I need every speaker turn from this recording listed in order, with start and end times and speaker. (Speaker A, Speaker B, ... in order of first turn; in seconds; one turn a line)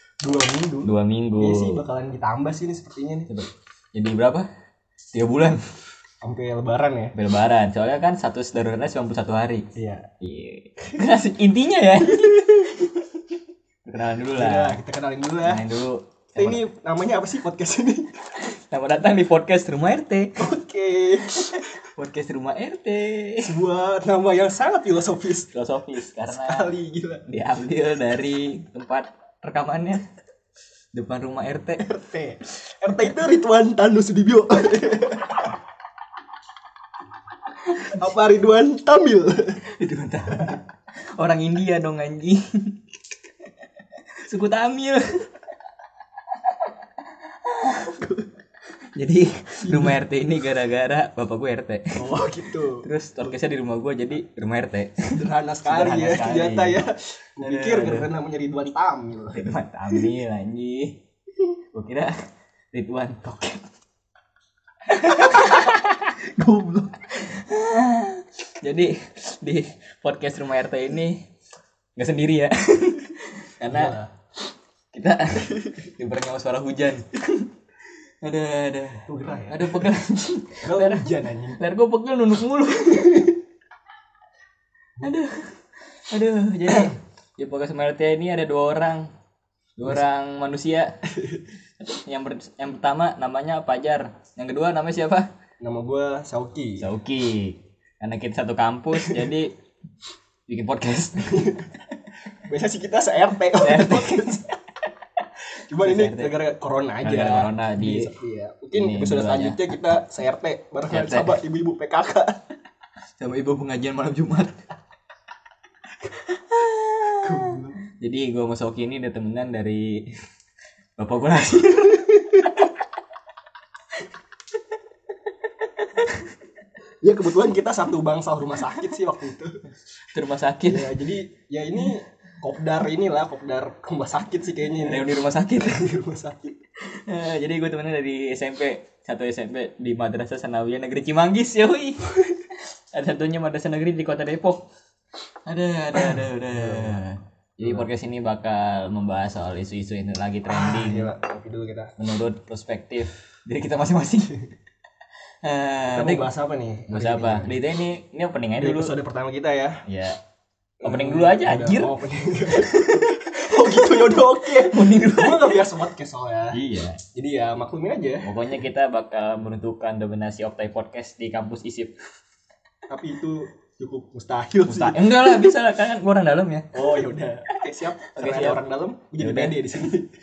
Speaker A: 0.2-3.3
Speaker B: 0.8-1.8
Speaker B: 3.3-4.5
Speaker B: 5.1-5.6
Speaker A: 6.2-7.1
Speaker B: 7.1-9.7
Speaker A: 9.8-10.1
Speaker B: 10.2-13.2
Speaker B: 13.8-14.8
Speaker A: 14.4-15.6
Speaker B: 15.4-16.6
Speaker A: 16.4-18.1
Speaker B: 18.4-20.5
Speaker A: 20.4-21.5
Speaker B: 21.3-23.5
Speaker A: 23.4-25.5
Speaker B: 25.5-26.7
Speaker A: 26.3-27.2
Speaker B: 27.3-30.0
Speaker B: 30.9-31.9
Speaker A: 31.8-35.5
Speaker A: 37.8-39.6
Speaker B: 39.7-40.6
Speaker B: 41.2-42.5
Speaker B: 44.2-45.3
Speaker B: 47.5-48.0
Speaker B: 49.0-52.0
Speaker A: 49.6-50.0
Speaker A: 52.0-52.9
Speaker B: 52.8-55.1
Speaker A: 55.1-60.1
Speaker B: 55.7-56.9
Speaker B: 57.4-58.1
Speaker B: 59.3-61.0
Speaker B: 61.7-62.1
Speaker B: 62.7-63.6
Speaker B: 64.9-71.2
Speaker B: 72.0-74.0
Speaker A: 73.7-74.1
Speaker B: 74.9-77.5
Speaker B: 78.2-83.4
Speaker A: 79.1-79.9
Speaker A: 80.6-81.6
Speaker B: 85.0-85.6
Speaker B: 86.1-89.1
Speaker B: 89.8-91.0
Speaker B: 91.8-95.3
Speaker A: 95.6-96.9
Speaker B: 96.8-99.6
Speaker B: 100.5-101.5
Speaker A: 101.2-101.7
Speaker A: 102.4-104.5
Speaker B: 103.5-104.5
Speaker A: 105.7-112.4
Speaker B: 105.8-106.3
Speaker B: 107.0-108.1
Speaker B: 108.7-110.0
Speaker B: 110.9-111.4
Speaker B: 113.2-114.6
Speaker B: 116.0-120.1
Speaker A: 117.2-117.8
Speaker B: 121.0-122.6
Speaker A: 127.0-129.5
Speaker B: 130.1-130.9
Speaker A: 130.7-136.6
Speaker B: 134.8-135.9
Speaker B: 136.8-144.7
Speaker B: 145.4-151.1
Speaker A: 146.5-147.0
Speaker A: 150.4-151.9
Speaker B: 152.0-154.4
Speaker B: 155.4-156.3
Speaker A: 155.9-157.5
Speaker B: 156.9-158.9
Speaker A: 158.6-159.8
Speaker B: 159.8-160.2
Speaker B: 160.8-161.9
Speaker A: 160.8-166.6
Speaker B: 162.5-165.7
Speaker B: 166.5-167.0
Speaker A: 167.1-168.3
Speaker B: 168.2-171.9
Speaker A: 172.9-175.4
Speaker B: 174.7-176.8
Speaker A: 176.7-180.1
Speaker B: 178.1-178.6
Speaker B: 179.2-179.6